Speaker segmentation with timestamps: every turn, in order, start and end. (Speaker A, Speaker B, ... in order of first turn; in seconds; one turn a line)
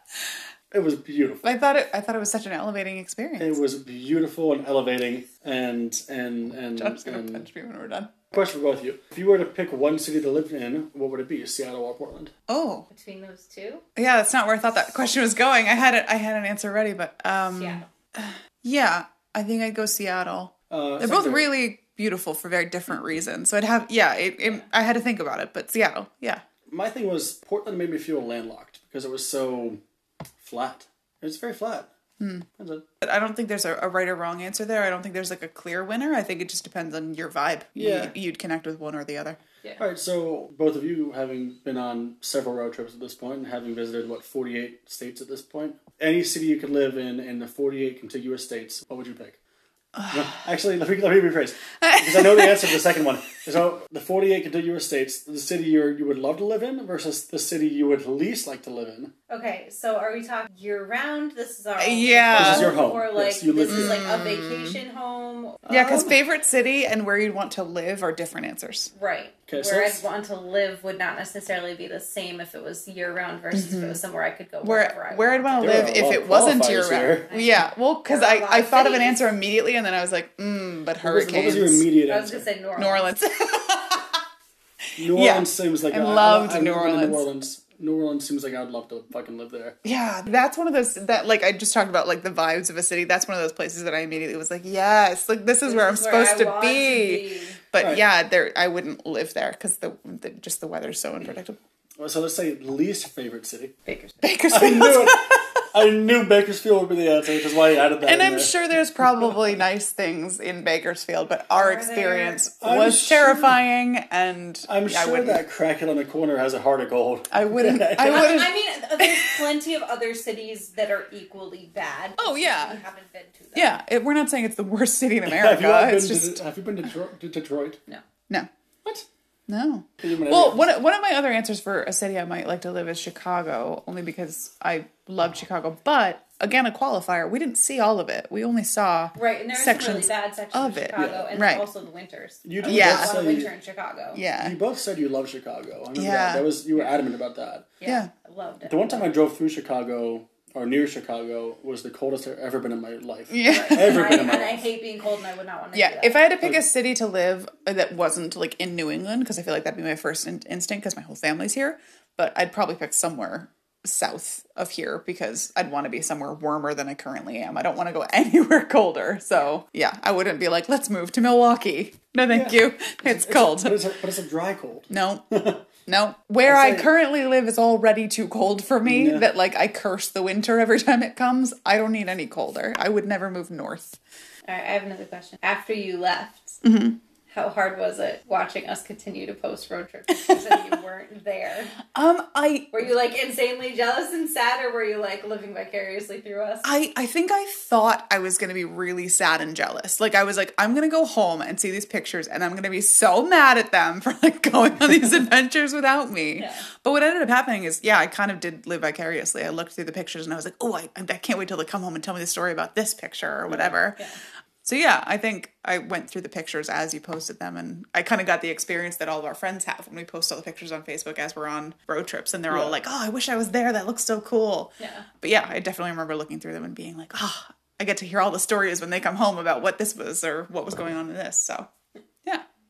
Speaker A: 0.7-1.5
Speaker B: 1.4-3.6
Speaker A: 3.4-7.5
Speaker B: 6.8-8.1
Speaker A: 8.3-12.3
Speaker B: 12.5-12.9
Speaker C: 12.9-13.8
Speaker B: 14.0-26.4
Speaker C: 17.5-17.9
Speaker A: 20.7-21.5
Speaker A: 26.7-29.8
Speaker A: 30.4-31.9
Speaker B: 32.2-32.5
Speaker A: 32.6-32.9
Speaker B: 33.0-39.4
Speaker A: 37.8-38.1
Speaker A: 39.8-49.4
Speaker B: 50.0-50.5
Speaker A: 50.1-59.1
Speaker B: 51.8-53.0
Speaker C: 59.3-65.6
Speaker B: 61.8-62.8
Speaker A: 62.3-64.1
Speaker B: 63.6-64.8
Speaker A: 65.7-66.2
Speaker B: 65.7-68.9
Speaker C: 68.9-75.8
Speaker A: 69.5-70.0
Speaker B: 73.5-74.0
Speaker B: 74.6-81.9
Speaker A: 75.6-77.3
Speaker C: 77.3-79.2
Speaker A: 81.0-82.5
Speaker C: 82.1-83.1
Speaker B: 82.8-84.2
Speaker A: 85.0-89.8
Speaker B: 85.1-87.2
Speaker B: 89.8-101.6
Speaker C: 95.6-97.6
Speaker A: 97.8-98.1
Speaker A: 102.0-103.7
Speaker C: 103.9-104.2
Speaker B: 104.2-105.6
Speaker A: 104.5-109.6
Speaker B: 108.0-115.4
Speaker C: 111.5-112.4
Speaker A: 112.6-113.6
Speaker A: 114.7-118.5
Speaker B: 117.3-119.5
Speaker C: 118.0-123.8
Speaker B: 122.2-122.8
Speaker B: 123.5-126.4
Speaker A: 125.2-127.8
Speaker B: 129.5-141.7
Speaker A: 130.0-130.7
Speaker C: 139.2-144.2
Speaker A: 141.0-141.3
Speaker A: 142.4-143.5
Speaker B: 142.6-143.1
Speaker B: 144.1-144.6
Speaker A: 144.4-147.7
Speaker B: 145.9-146.5
Speaker C: 147.8-149.1
Speaker B: 147.8-148.1
Speaker A: 148.7-154.7
Speaker B: 153.3-154.2
Speaker C: 153.5-156.2
Speaker B: 155.7-173.8
Speaker A: 172.3-175.6
Speaker B: 174.9-175.3
Speaker B: 175.8-184.0
Speaker A: 176.4-176.9
Speaker A: 178.8-179.3
Speaker C: 184.5-186.6
Speaker B: 186.6-187.0
Speaker C: 187.3-191.8
Speaker B: 191.9-192.9
Speaker C: 192.7-196.7
Speaker B: 196.6-214.0
Speaker C: 206.4-206.7
Speaker A: 213.5-213.8
Speaker B: 214.6-231.7
Speaker A: 222.5-222.8
Speaker C: 224.8-225.1